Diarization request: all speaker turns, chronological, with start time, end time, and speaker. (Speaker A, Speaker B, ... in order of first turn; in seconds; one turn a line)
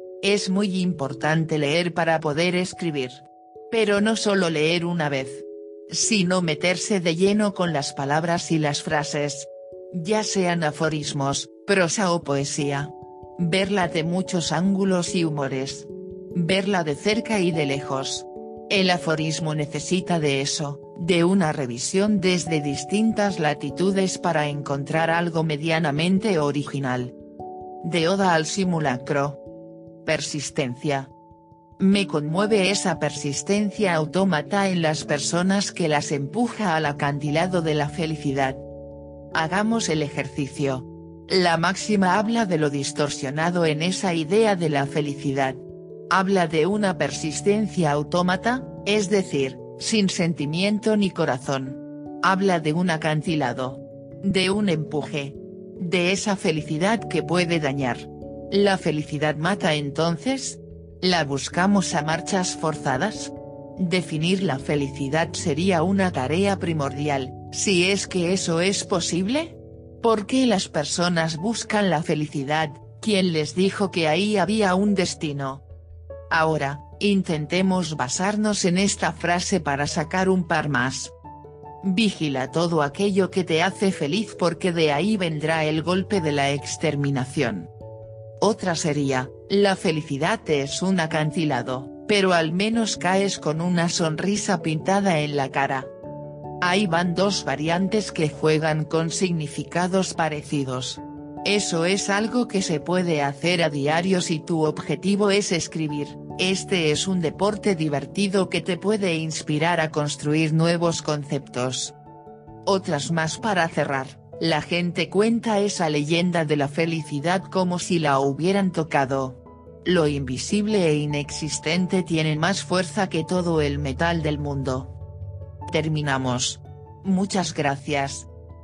Speaker A: 0.2-27.1
Speaker A: 27.8-29.4
Speaker A: 30.0-31.1
Speaker A: 31.8-38.6
Speaker A: 39.3-75.6
Speaker A: 76.3-81.1
Speaker A: 81.8-87.7
Speaker A: 88.4-95.9
Speaker A: 96.6-111.9
Speaker A: 112.7-124.9
Speaker A: 125.7-128.3